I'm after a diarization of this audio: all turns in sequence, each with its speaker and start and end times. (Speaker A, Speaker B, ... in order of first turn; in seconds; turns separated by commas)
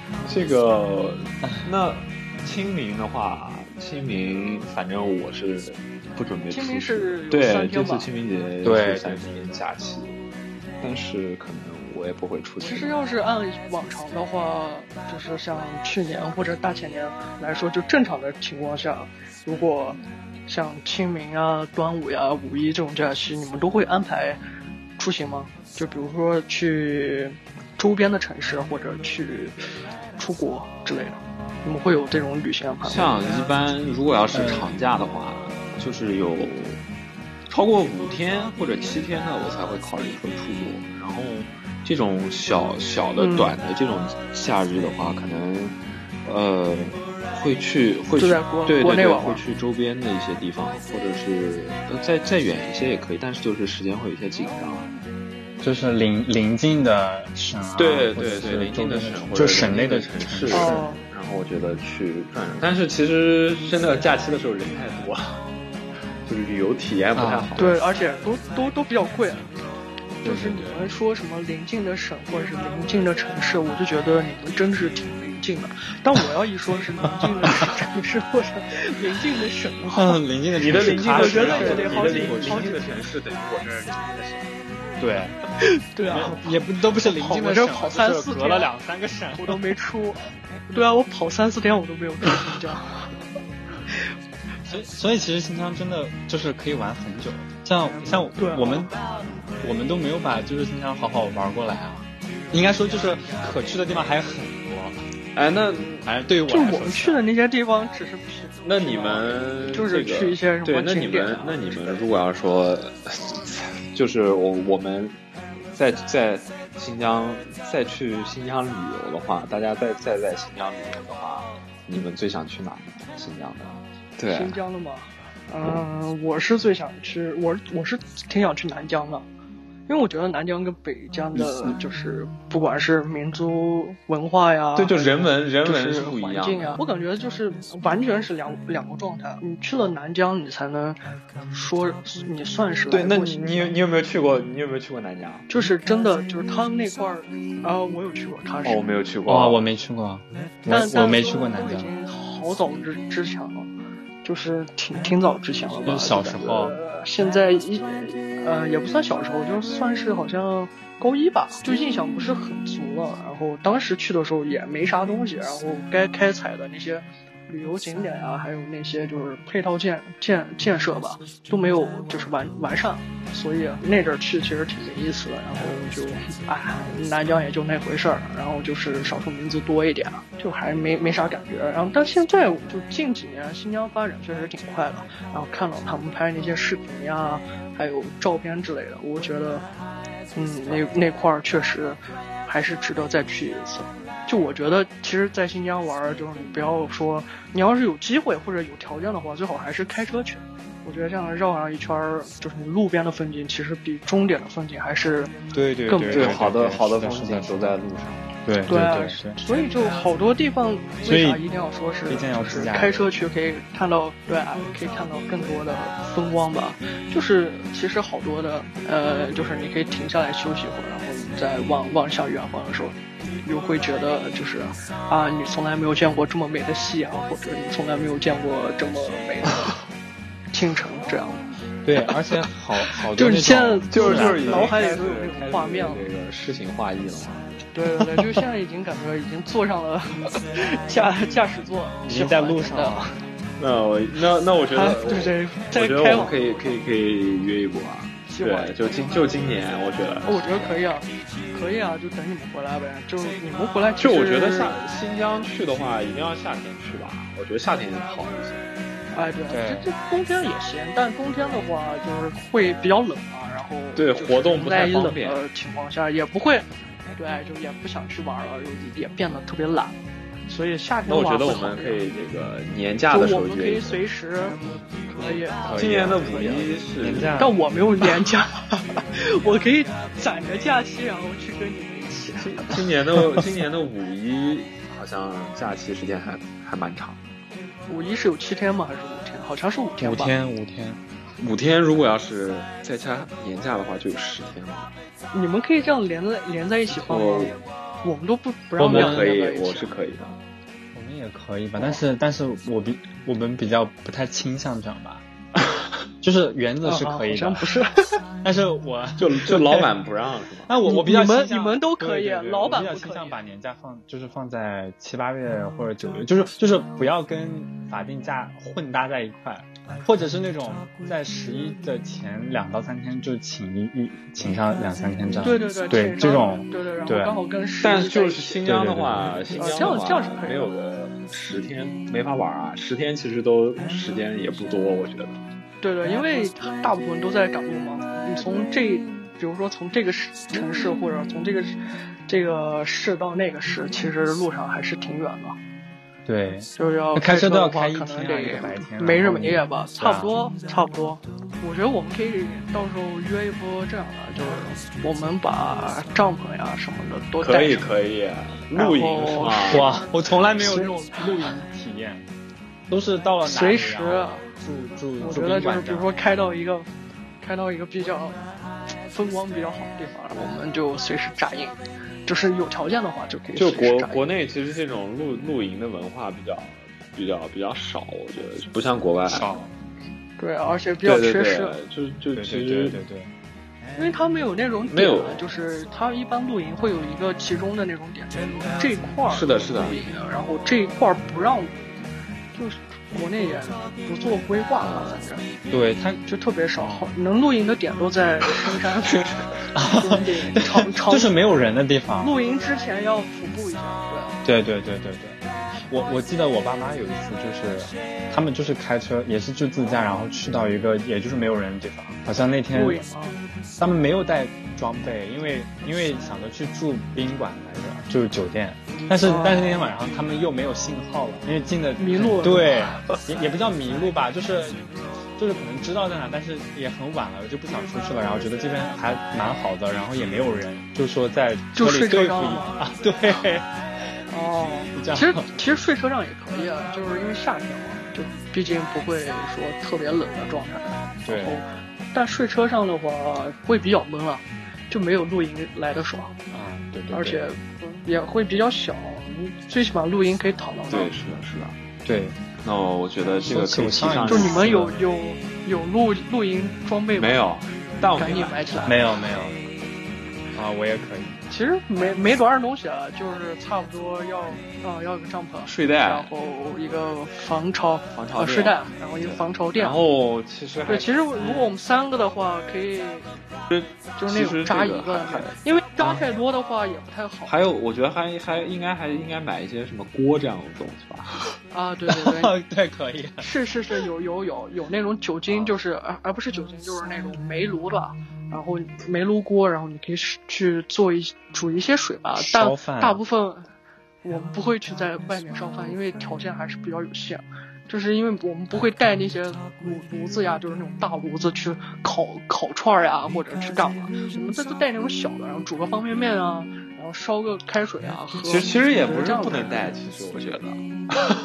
Speaker A: 0.2-10.2, Speaker B: 6.5-8.1, Speaker C: 8.6-9.3, Speaker A: 10.8-13.0, Speaker B: 12.6-24.4, Speaker B: 25.0-29.6, Speaker B: 30.2-33.1, Speaker A: 32.8-36.8, Speaker C: 34.3-34.7, Speaker A: 37.5-54.9, Speaker B: 43.2-43.6, Speaker B: 48.2-49.4, Speaker C: 55.6-60.9, Speaker A: 57.8-65.4, Speaker B: 60.5-61.0, Speaker A: 66.2-67.8, Speaker C: 67.2-67.7, Speaker B: 67.6-69.5, Speaker B: 70.2-80.2, Speaker C: 70.2-70.9, Speaker C: 80.0-82.8, Speaker A: 80.6-84.5, Speaker B: 80.7-83.0, Speaker C: 85.0-85.4, Speaker B: 85.6-88.7, Speaker C: 86.1-89.6, Speaker B: 89.4-93.1, Speaker C: 94.7-98.9, Speaker B: 98.3-98.9, Speaker C: 99.6-105.0, Speaker A: 105.3-106.1, Speaker C: 106.0-107.2, Speaker B: 106.5-111.8, Speaker A: 108.6-115.2, Speaker A: 115.7-124.6, Speaker B: 124.3-129.3, Speaker B: 129.9-135.0, Speaker A: 134.8-136.8, Speaker B: 135.6-143.7, Speaker A: 142.9-145.5, Speaker B: 145.5-148.8, Speaker A: 148.6-149.6, Speaker C: 149.3-151.9, Speaker B: 150.7-153.7, Speaker B: 154.2-189.7, Speaker C: 155.8-156.8, Speaker B: 190.3-205.3, Speaker C: 205.5-207.8, Speaker B: 205.9-206.4, Speaker A: 206.1-208.3, Speaker C: 208.5-209.4, Speaker B: 208.7-229.8, Speaker C: 211.1-211.4, Speaker C: 212.1-213.1, Speaker B: 230.5-231.5, Speaker C: 231.8-234.8, Speaker B: 232.9-236.0, Speaker A: 233.9-237.5, Speaker B: 237.7-243.2, Speaker C: 242.1-243.1, Speaker A: 243.6-250.7, Speaker B: 244.7-246.4, Speaker B: 248.3-249.2, Speaker B: 250.2-254.8, Speaker A: 254.0-258.7, Speaker B: 259.1-272.0, Speaker C: 259.5-259.9, Speaker A: 264.0-265.4, Speaker A: 271.1-274.0, Speaker B: 273.1-276.6, Speaker C: 275.6-277.6, Speaker A: 275.7-277.4, Speaker B: 277.4-282.7, Speaker A: 282.4-287.2, Speaker B: 287.9-290.4, Speaker C: 290.0-291.0, Speaker A: 291.4-294.9, Speaker B: 295.3-299.9, Speaker A: 296.9-297.6, Speaker C: 298.8-299.3, Speaker A: 298.8-300.4, Speaker C: 300.9-305.3, Speaker C: 306.2-307.7, Speaker B: 306.8-308.2, Speaker C: 308.4-309.9, Speaker A: 309.2-310.7, Speaker C: 310.7-327.4, Speaker B: 310.9-313.4, Speaker B: 325.4-328.6, Speaker A: 327.8-335.4, Speaker C: 328.6-329.3, Speaker B: 329.5-330.7, Speaker B: 335.8-345.6, Speaker C: 346.3-350.3, Speaker B: 346.8-357.9, Speaker A: 357.4-359.9, Speaker B: 358.7-360.0, Speaker C: 359.7-362.3, Speaker B: 360.6-361.5, Speaker C: 362.9-366.1, Speaker B: 363.4-364.5, Speaker B: 365.2-366.9, Speaker B: 367.4-368.4, Speaker B: 369.0-374.2, Speaker A: 373.6-379.5, Speaker C: 379.3-379.7, Speaker B: 380.4-381.8, Speaker A: 381.0-383.0, Speaker C: 382.4-383.3, Speaker B: 384.0-395.5, Speaker A: 384.9-385.5, Speaker A: 389.3-390.0, Speaker A: 394.8-395.2, Speaker C: 395.7-396.2, Speaker B: 396.3-399.2, Speaker C: 396.8-397.1, Speaker A: 399.0-399.6, Speaker C: 399.8-402.4, Speaker B: 399.8-401.3, Speaker B: 402.2-404.4, Speaker C: 404.4-413.0, Speaker B: 412.7-413.4, Speaker C: 413.8-424.8, Speaker B: 419.1-419.9, Speaker B: 422.0-423.0, Speaker C: 425.4-433.7, Speaker B: 431.8-432.7, Speaker B: 434.3-446.4, Speaker C: 434.9-435.5, Speaker C: 441.2-441.6, Speaker C: 446.5-447.5, Speaker B: 447.1-451.1, Speaker A: 450.9-451.8, Speaker C: 452.1-452.4, Speaker A: 452.6-454.8, Speaker C: 453.4-454.9, Speaker B: 454.3-457.4, Speaker A: 457.2-458.7, Speaker B: 458.2-459.1, Speaker C: 458.9-459.6, Speaker C: 460.5-461.4, Speaker B: 461.5-470.0, Speaker A: 465.7-466.3, Speaker A: 468.1-471.7, Speaker B: 470.9-473.3, Speaker A: 473.7-475.6, Speaker B: 474.2-477.5, Speaker A: 477.5-481.4, Speaker B: 481.7-482.5, Speaker C: 482.1-483.5, Speaker B: 483.4-493.7, Speaker C: 492.4-493.2, Speaker B: 494.2-509.9, Speaker A: 508.4-511.3